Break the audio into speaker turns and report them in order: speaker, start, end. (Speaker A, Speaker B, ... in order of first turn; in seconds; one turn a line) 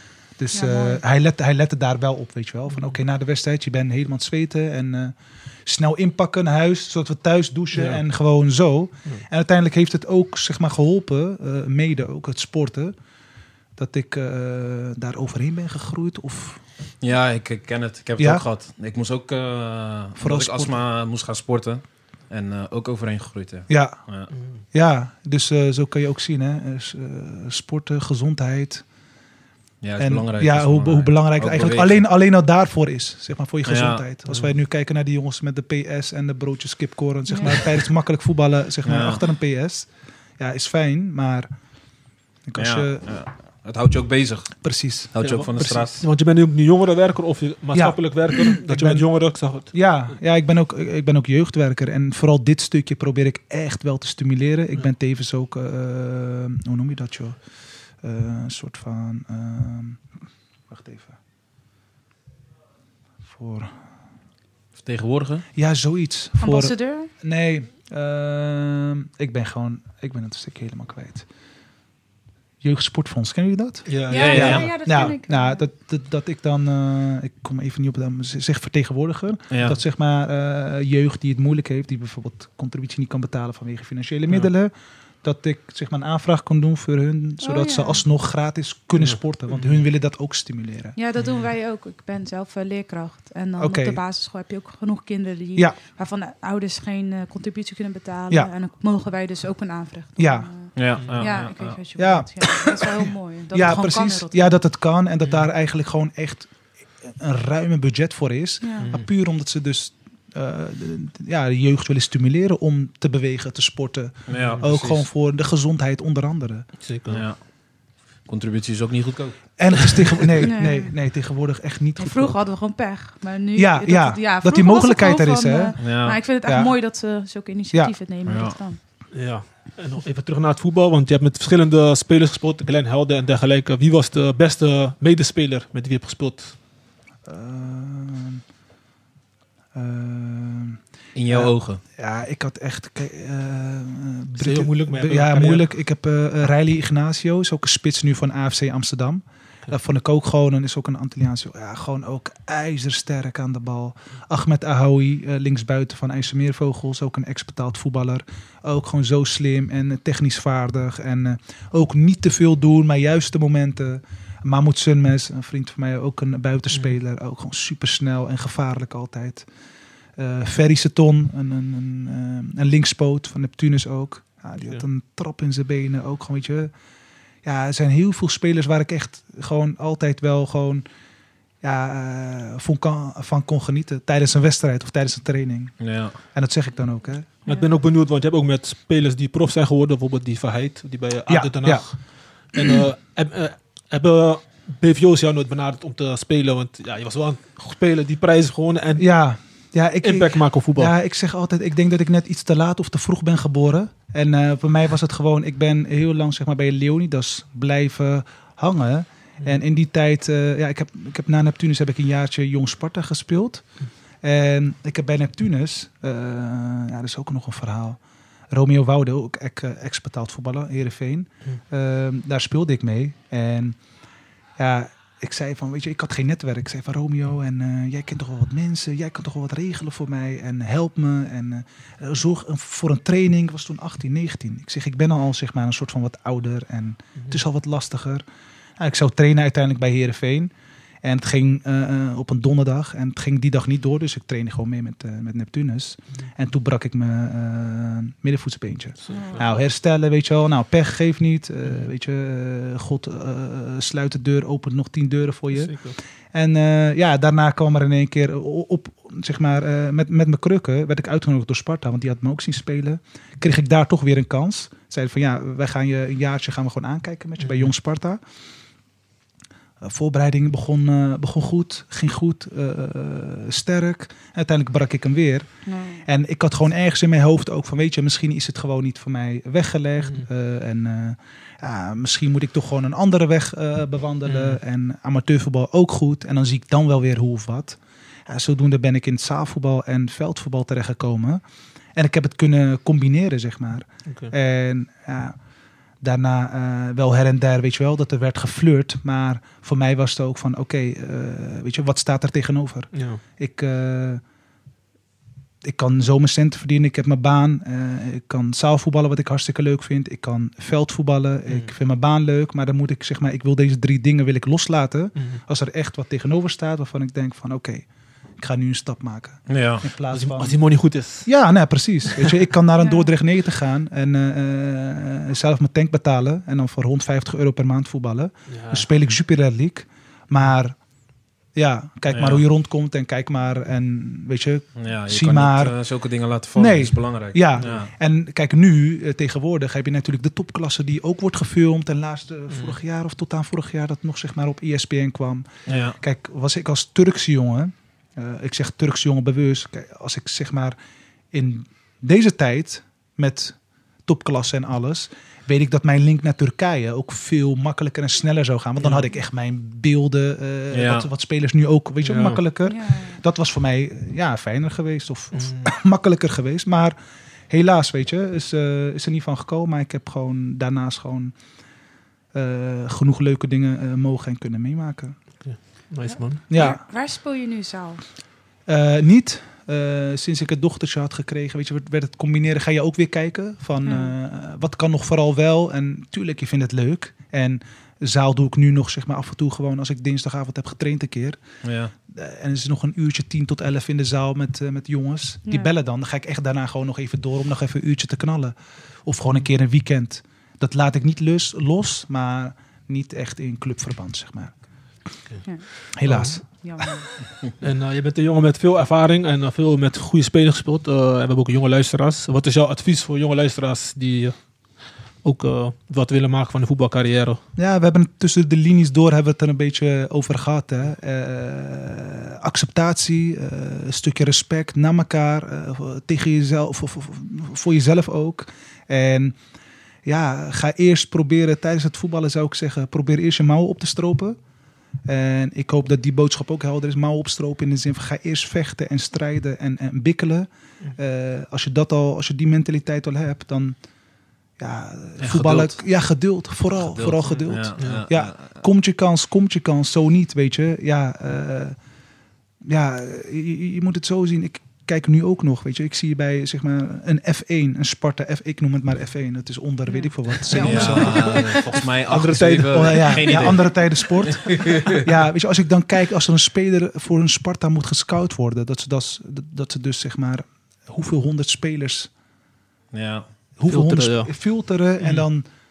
Speaker A: 0.4-12.9
Speaker B: 0.5-1.0
Speaker C: 7.7-8.0
Speaker A: 13.8-16.6
Speaker D: 17.0-24.3
Speaker A: 18.2-18.4
Speaker A: 20.2-20.8
Speaker A: 23.7-24.0
Speaker C: 24.3-24.6
Speaker A: 24.7-28.8
Speaker D: 29.8-32.0
Speaker A: 30.0-39.9
Speaker D: 33.6-34.0
Speaker D: 38.8-39.2
Speaker A: 40.4-41.5
Speaker A: 42.5-43.0
Speaker D: 42.5-44.5
Speaker A: 44.6-45.9
Speaker D: 45.1-46.0
Speaker C: 45.2-49.7
Speaker A: 47.7-49.0
Speaker A: 49.7-57.4
Speaker A: 58.0-60.0
Speaker A: 60.7-61.2
Speaker A: 63.3-63.7
Speaker D: 64.8-65.5
Speaker A: 65.5-71.2
Speaker B: 66.4-67.1
Speaker A: 72.6-84.7
Speaker C: 73.9-74.9
Speaker B: 74.1-75.6
Speaker D: 74.1-74.7
Speaker D: 79.5-79.8
Speaker A: 85.2-91.0
Speaker B: 87.4-88.0
Speaker C: 89.0-89.8
Speaker B: 91.0-104.5
Speaker A: 93.6-94.0
Speaker A: 100.2-100.5
Speaker D: 100.8-101.8
Speaker C: 101.0-101.3
Speaker A: 102.0-106.5
Speaker A: 107.0-116.7
Speaker B: 108.6-108.9
Speaker C: 108.8-109.1
Speaker D: 114.3-115.0
Speaker C: 114.3-114.6
Speaker C: 116.8-117.2
Speaker D: 117.1-117.3
Speaker D: 118.3-120.3
Speaker A: 119.6-122.4
Speaker B: 120.4-120.9
Speaker B: 122.0-128.8
Speaker A: 123.5-125.8
Speaker D: 125.8-126.2
Speaker A: 126.4-126.7
Speaker D: 128.2-128.6
Speaker C: 129.1-136.6
Speaker A: 137.2-138.4
Speaker A: 139.7-169.4
Speaker D: 141.1-141.8
Speaker C: 144.3-145.7
Speaker A: 170.2-176.7
Speaker A: 177.4-180.8
Speaker A: 181.6-187.3
Speaker D: 185.8-186.2
Speaker C: 187.4-192.0
Speaker A: 191.3-191.9
Speaker C: 192.5-199.1
Speaker A: 192.6-192.8
Speaker A: 198.9-213.6
Speaker C: 200.0-200.9
Speaker A: 214.2-218.0
Speaker A: 218.5-223.8
Speaker A: 224.6-238.2
Speaker A: 238.8-240.5
Speaker A: 241.0-268.2
Speaker C: 249.0-249.5
Speaker B: 249.1-249.4
Speaker C: 255.5-256.0
Speaker C: 267.4-267.7
Speaker A: 269.8-275.4
Speaker B: 275.6-276.0
Speaker A: 276.0-291.4
Speaker C: 284.2-284.6
Speaker A: 291.9-295.4
Speaker A: 296.0-304.2
Speaker C: 302.9-303.2
Speaker A: 305.6-317.9
Speaker C: 311.5-311.7
Speaker A: 318.4-320.6
Speaker D: 319.5-319.9
Speaker C: 320.1-321.3
Speaker A: 321.2-330.8
Speaker B: 322.8-323.1
Speaker C: 328.5-328.9
Speaker A: 331.6-335.7
Speaker D: 332.1-332.4
Speaker D: 334.8-337.9
Speaker A: 336.6-350.8
Speaker C: 342.5-342.8
Speaker D: 345.7-346.0
Speaker A: 351.3-366.9
Speaker C: 358.8-359.1
Speaker D: 360.7-361.1
Speaker C: 362.0-362.4
Speaker B: 362.6-363.2
Speaker C: 365.3-365.7
Speaker A: 367.5-371.3
Speaker A: 372.3-375.1
Speaker C: 375.4-376.4
Speaker A: 376.5-376.8
Speaker B: 376.5-378.0
Speaker A: 378.7-391.4
Speaker B: 383.8-384.1
Speaker D: 391.6-391.9
Speaker A: 392.1-404.5
Speaker A: 405.9-406.8
Speaker C: 406.0-406.3
Speaker B: 406.6-407.1
Speaker C: 407.6-414.4
Speaker C: 415.2-417.4
Speaker A: 417.6-429.4
Speaker A: 430.0-434.4
Speaker A: 435.1-443.8
Speaker A: 444.6-451.8
Speaker D: 445.2-445.8
Speaker D: 446.8-448.5
Speaker C: 447.8-448.1
Speaker A: 452.6-461.6
Speaker B: 459.9-461.6
Speaker D: 460.5-465.0
Speaker C: 462.1-463.5
Speaker A: 462.7-472.1
Speaker D: 472.9-473.2
Speaker A: 473.6-475.4
Speaker C: 473.7-474.3